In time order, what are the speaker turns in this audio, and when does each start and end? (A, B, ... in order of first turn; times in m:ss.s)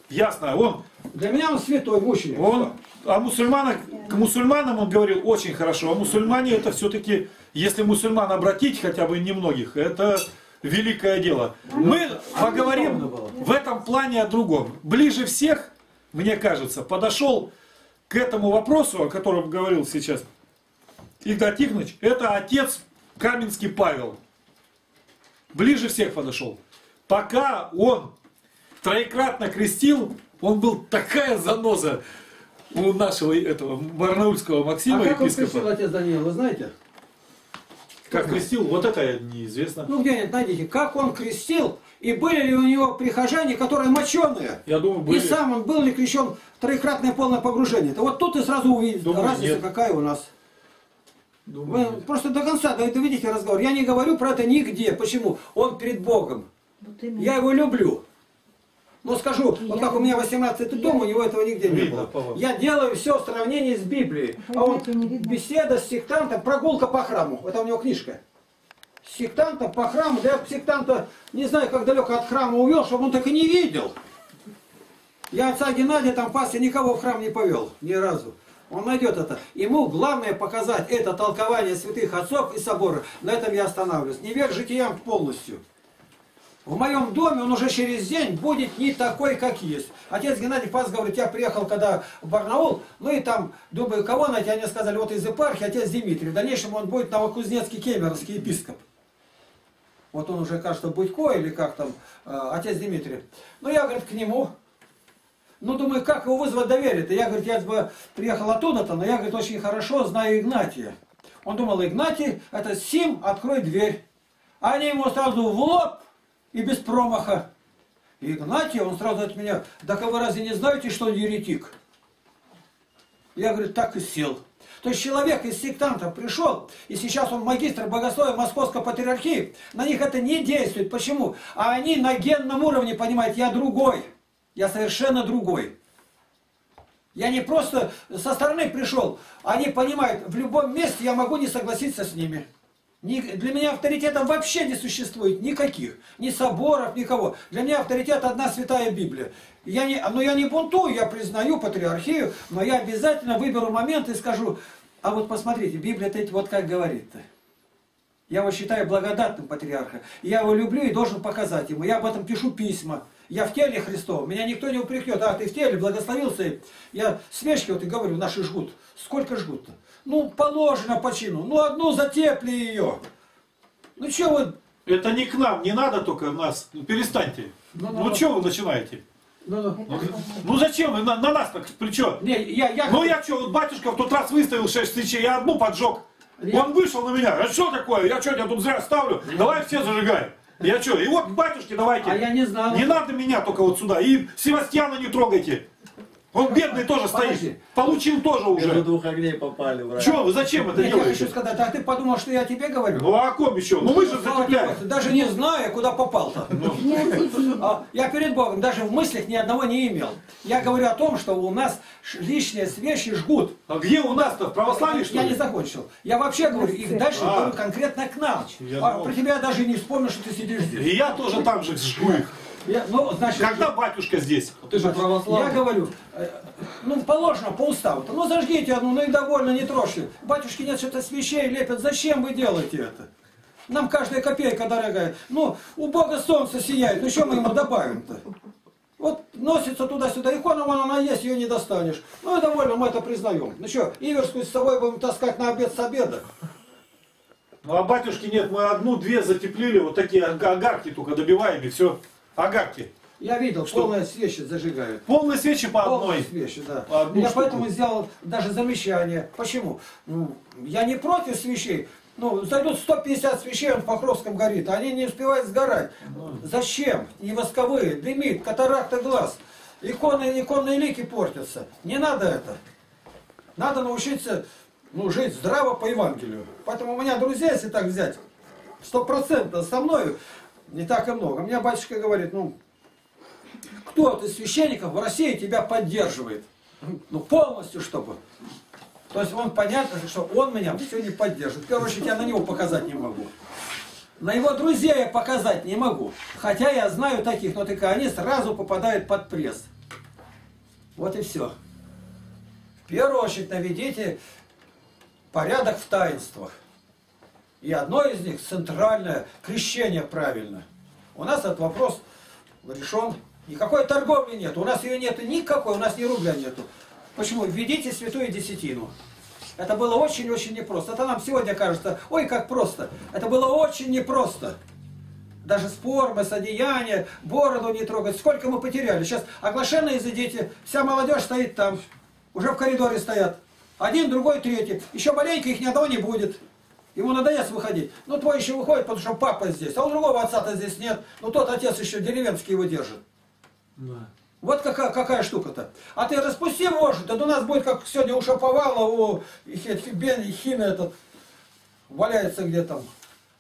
0:00.1-0:00.8 A
0:01.1-0:02.7 B
0:02.3-0:17.5 A
0:11.7-0:13.4 B
0:18.1-0:20.3 A
0:21.2-0:24.2 A
0:25.5-0:28.1 A
0:28.8-0:32.0 A
0:32.7-0:35.7 A
0:34.9-0:36.7 B
0:38.1-0:38.4 B
0:38.1-0:39.9 A
0:39.9-0:50.3 B
0:44.7-0:45.4 A
0:49.0-0:49.6 A
0:51.5-0:52.0 A
0:51.7-0:56.5 B
0:56.8-0:57.3 C
0:57.2-0:58.0 B
0:59.0-1:08.2 B
0:59.6-1:01.1 C
1:01.6-1:02.4 A
1:04.4-1:05.4 C
1:09.0-1:14.0 B
1:15.3-1:25.6 B
1:26.6-1:38.8 B
1:40.1-1:44.5 B
1:45.6-1:54.0 B
1:54.6-1:57.5 B
1:58.2-2:01.8 B
2:03.4-2:15.7 B
2:17.2-2:22.5 B
2:23.0-2:37.2 B
2:38.3-2:53.0 B
2:54.0-2:54.6 B
2:54.9-2:59.0 A
2:57.8-2:58.4 B
2:59.4-3:00.3 B
2:59.8-3:00.4 C
2:59.9-3:02.2 A
3:02.2-3:03.2 B
3:02.8-3:15.7 A
3:06.4-3:06.7 B
3:12.0-3:13.0 B
3:16.3-3:18.8 A
3:16.5-3:17.6 B
3:18.5-3:20.2 D
3:20.0-3:21.3 A
3:20.8-3:23.1 B
3:22.9-3:24.8 A
3:23.8-3:33.6 B
3:26.5-3:27.4 A
3:26.7-3:27.6 C
3:33.7-3:35.4 A
3:34.1-3:40.9 B
3:36.5-3:37.1 C
3:37.1-3:37.6 A
3:38.6-3:39.1 A
3:40.7-3:42.4 A
3:42.0-3:43.7 B
3:43.4-3:44.7 A
3:44.7-3:45.6 D
3:44.7-3:53.1 B
3:53.7-3:58.2 B
3:59.0-4:06.3 B
4:07.6-4:12.9 A
4:13.2-4:15.0 B
4:15.1-4:16.3 A
4:15.8-4:32.6 B
4:16.9-4:17.7 A
4:26.1-4:26.4 A
4:33.6-4:38.2 B
4:38.8-4:42.6 B
4:43.8-4:48.2 B
4:49.1-4:53.3 B
4:54.2-4:59.7 B
5:01.0-5:01.5 B
5:02.9-5:04.2 B
5:05.3-5:06.5 B
5:07.6-5:12.0 B
5:12.6-5:18.9 B
5:19.6-5:24.6 B
5:25.4-5:36.4 B
5:37.0-5:43.0 B
5:43.8-5:44.1 A
5:44.4-5:50.9 B
5:51.9-5:52.9 B